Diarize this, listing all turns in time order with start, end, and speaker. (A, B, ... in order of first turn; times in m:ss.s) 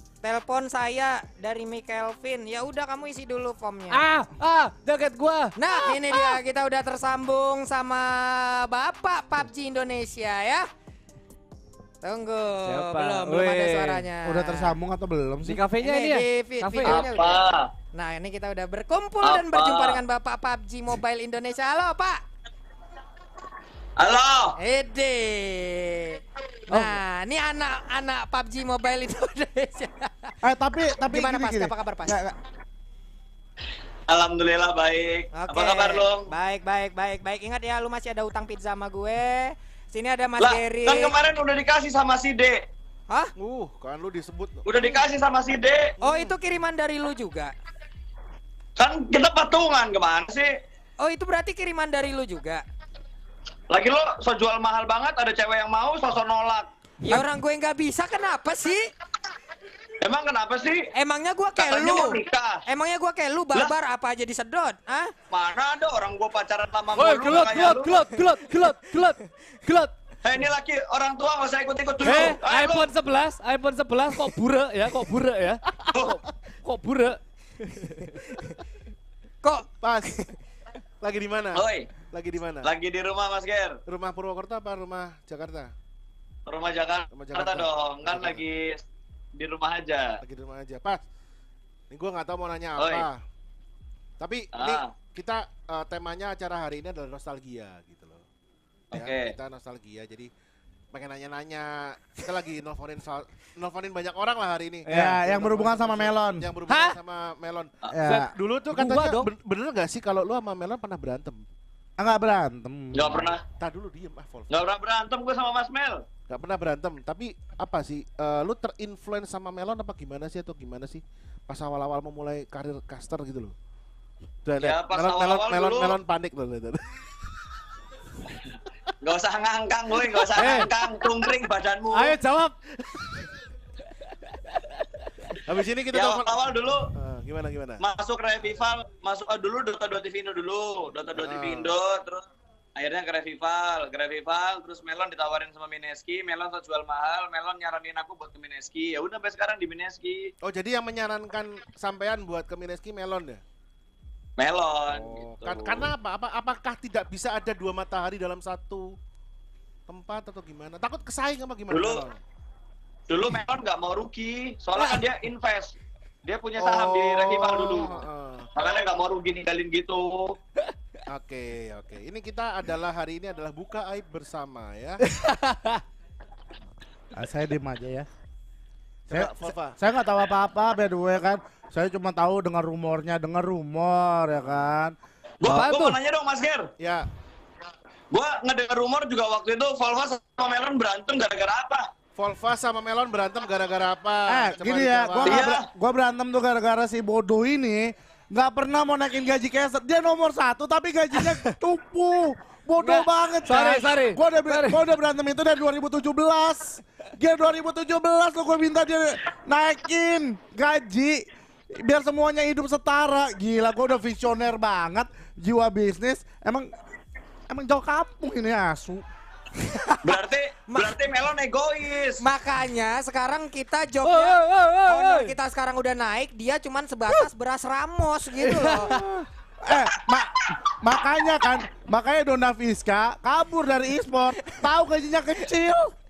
0:00.2-0:04.0 A
0:03.9-0:06.4 B
0:05.5-0:10.6 A
0:12.0-0:14.7 A
0:12.6-0:14.0 B
0:14.2-0:15.6 C
0:15.4-0:17.1 B
0:15.8-0:22.2 A
0:16.8-0:17.7 D
0:19.2-0:20.0 D
0:24.0-0:24.6 D
0:24.6-0:30.3 A
0:30.4-0:32.3 C
0:31.0-0:32.2 A
0:34.1-0:36.3 D
0:35.3-0:41.2 A
0:40.4-0:42.7 D
0:43.4-0:45.0 E
0:44.6-0:45.9 D
0:46.0-0:47.5 A
0:46.0-0:46.3 E
0:48.8-0:50.5 D
0:51.0-0:52.6 A
0:53.7-0:56.7 D
0:57.0-0:58.9 A
1:00.0-1:00.9 D
1:00.9-1:05.1 A
1:01.6-1:02.6 D
1:05.3-1:08.1 D
1:06.9-1:09.9 B
1:10.2-1:12.9 D
1:12.0-1:18.2 B
1:15.9-1:16.2 D
1:19.4-1:20.3 A
1:19.8-1:20.2 E
1:21.0-1:22.7 E
1:21.5-1:21.9 D
1:22.6-1:23.8 D
1:23.8-1:25.7 E
1:26.4-1:28.8 D
1:27.1-1:28.4 E
1:29.3-1:30.2 D
1:30.2-1:31.0 E
1:31.9-1:33.2 E
1:32.8-1:33.0 D
1:34.2-1:38.2 E
1:34.5-1:35.0 D
1:38.9-1:39.4 D
1:38.9-1:40.3 E
1:40.9-1:47.7 E
1:44.8-1:45.2 B
1:44.9-1:46.5 C
1:46.7-1:47.0 B
1:47.9-1:48.3 C
1:48.0-1:49.3 B
1:48.3-1:51.5 E
1:52.0-1:53.3 C
1:52.9-1:53.4 D
1:53.5-1:54.5 E
1:54.5-1:56.0 D
1:56.3-2:03.5 E
2:04.4-2:07.4 E
2:04.6-2:05.9 D
2:09.0-2:12.2 D
2:09.9-2:10.5 E
2:10.3-2:10.7 B
2:11.9-2:13.3 B
2:15.4-2:17.8 E
2:15.9-2:16.9 D
2:17.8-2:30.3 D
2:21.1-2:21.7 E
2:30.4-2:33.4 E
2:34.4-2:35.8 D
2:34.9-2:38.9 E
2:39.9-2:42.2 E
2:41.7-2:42.0 D
2:43.1-2:48.0 D
2:46.6-2:48.5 E
2:48.6-2:50.4 D
2:51.1-2:55.0 E
2:55.0-2:55.8 B
2:57.1-2:58.1 C
2:59.1-2:59.8 E
2:59.1-3:05.0 C
3:05.4-3:06.7 D
3:05.4-3:06.0 B
3:06.8-3:07.1 E
3:08.1-3:11.9 D
3:12.1-3:15.5 E
3:14.3-3:36.7 C
3:15.2-3:15.6 D
3:21.2-3:21.5 B
3:22.8-3:24.9 B
3:37.5-3:39.0 C
3:39.6-3:39.9 C
3:40.0-3:42.2 D
3:40.7-3:41.0 A
3:42.2-3:49.0 A
3:44.0-3:45.3 B
3:48.4-3:49.2 B
3:49.6-3:55.9 C